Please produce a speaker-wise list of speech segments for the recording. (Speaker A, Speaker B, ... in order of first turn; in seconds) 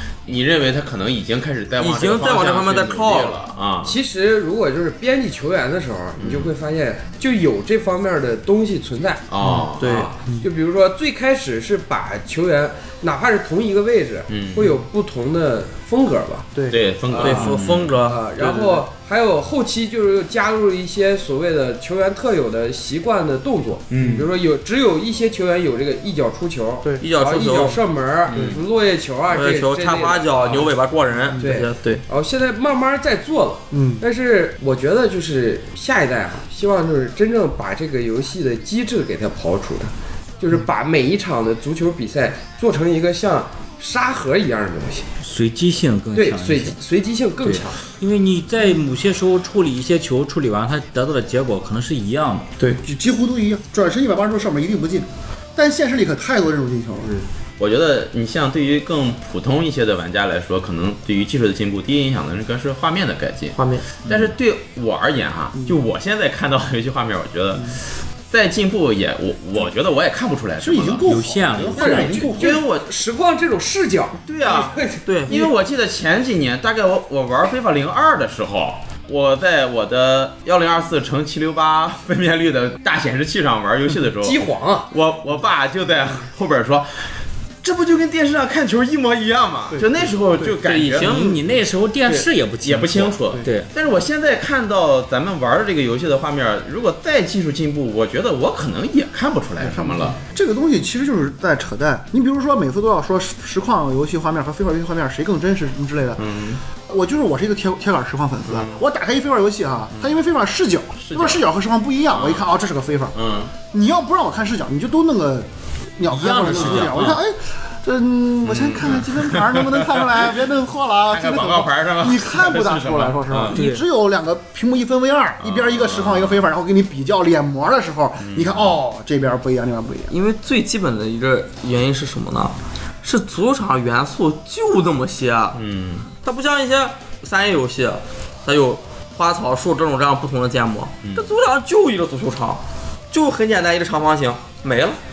Speaker A: 0.2-4.0, 6.2-6.5, 9.3-10.1, 14.3-14.8, 16.7-18.0, 23.9-24.2, 28.3-28.6, 57.6-67.8, 68.3-71.0, 71.6-72.9, 74.2-91.3, 92.6-100.2, 106.2-106.6, 108.5-108.8, 111.0-111.4, 112.1-112.5, 113.1-113.5, 116.5-117.1, 118.4-120.3, 121.1-123.6, 125.4-126.4, 128.2-128.8, 135.5-136.1, 141.0-141.3
Speaker B: 1.8-3.4, 9.8-10.1, 17.2-18.8, 27.0-27.8, 29.3-32.0, 63.5-63.8, 75.0-75.4, 90.6-91.4, 130.1-135.6, 136.2-145.0
Speaker C: 3.8-9.2, 9.8-30.7, 31.4-45.1, 46.1-47.8, 71.8-75.5, 84.2-84.9
Speaker D: 24.0-24.3, 33.7-34.0, 52.8-57.2, 70.6-72.6, 89.7-90.5, 99.6-106.2, 106.9-113.2, 113.7-130.1
Speaker E: 45.2-46.8, 47.4-52.5, 64.0-64.3, 71.1-72.1, 90.9-93.7, 116.1-117.2, 123.5-123.8